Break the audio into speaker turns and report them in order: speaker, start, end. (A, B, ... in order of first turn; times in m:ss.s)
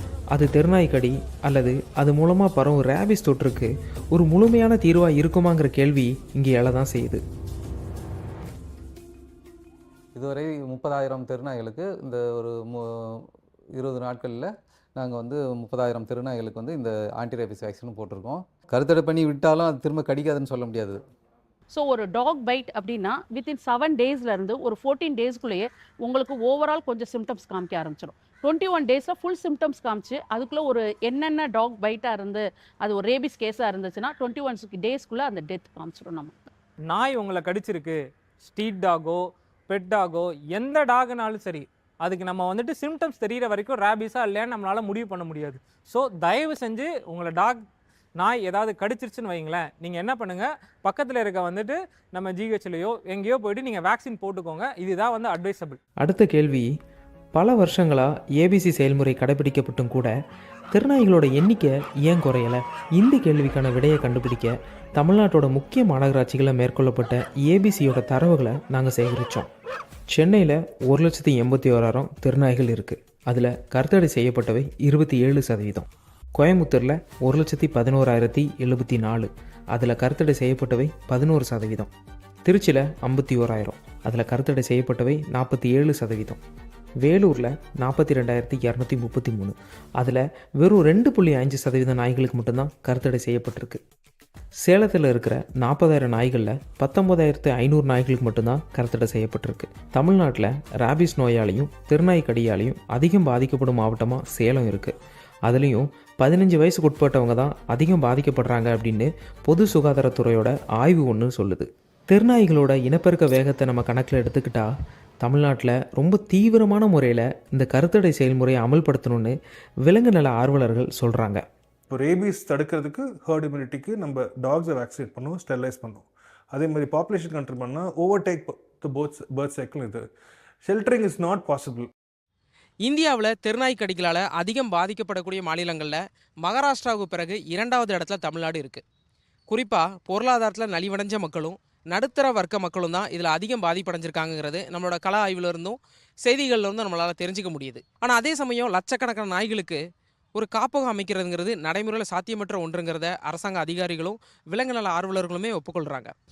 0:00.3-0:07.2 A
0:10.1-0:13.2 B
0:13.8-0:21.0 B
0:21.7-0:36.3 C
0:36.9-0:47.6 D
0:48.2-0:55.8 D
0:56.0-0:56.7 A
0:57.3-1:00.1 A
1:00.7-1:09.5 A
1:10.1-1:21.9 A
1:22.4-1:26.4 A
1:27.0-1:33.8 A
1:34.6-1:44.9 A
1:45.5-1:54.7 A
1:55.2-1:59.3 A
1:59.8-2:01.4 A
2:02.0-2:06.0 E
2:06.6-2:10.0 E
2:10.7-2:11.9 E
2:12.8-2:18.8 F
2:19.5-2:29.8 F
2:30.3-2:36.1 F